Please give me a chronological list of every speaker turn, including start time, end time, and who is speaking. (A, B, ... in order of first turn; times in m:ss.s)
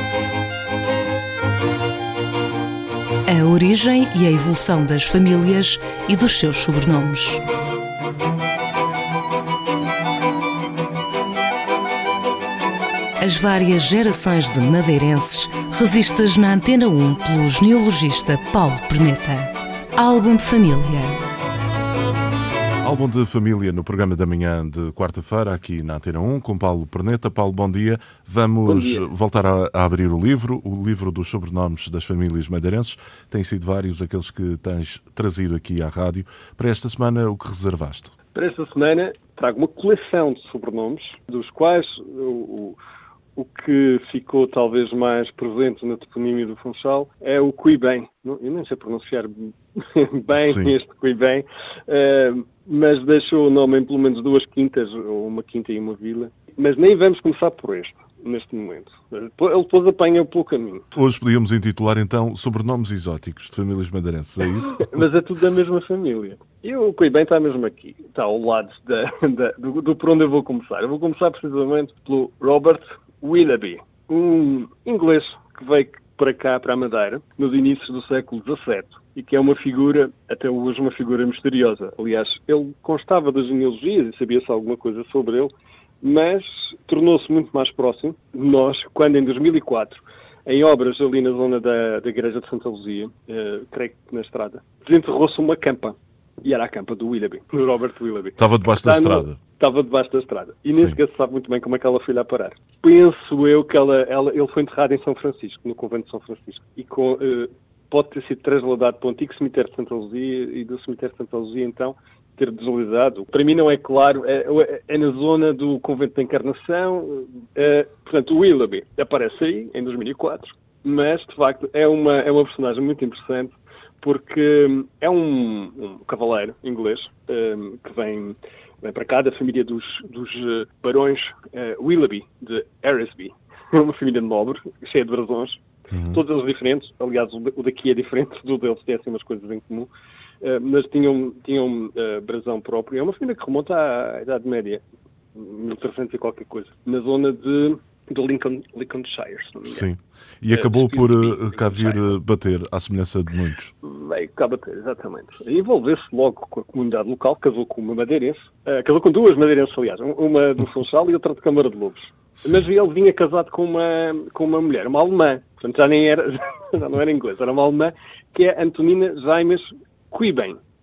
0:03.2-0:07.4 A
0:13.2-0:21.2 A
0:22.8-0:38.1 B
0:28.6-0:29.0 C
0:38.3-0:42.8 C
0:43.4-1:00.8 C
0:50.3-0:50.7 B
1:01.0-1:04.9 B
1:04.7-2:19.9 C
1:38.4-1:39.4 B
1:40.7-1:41.0 B
2:15.9-2:16.2 B
2:20.4-2:24.8 C
2:25.3-2:29.9 C
2:29.7-2:33.7 B
2:30.5-2:32.1 C
2:33.8-2:50.6 C
2:42.4-2:42.6 B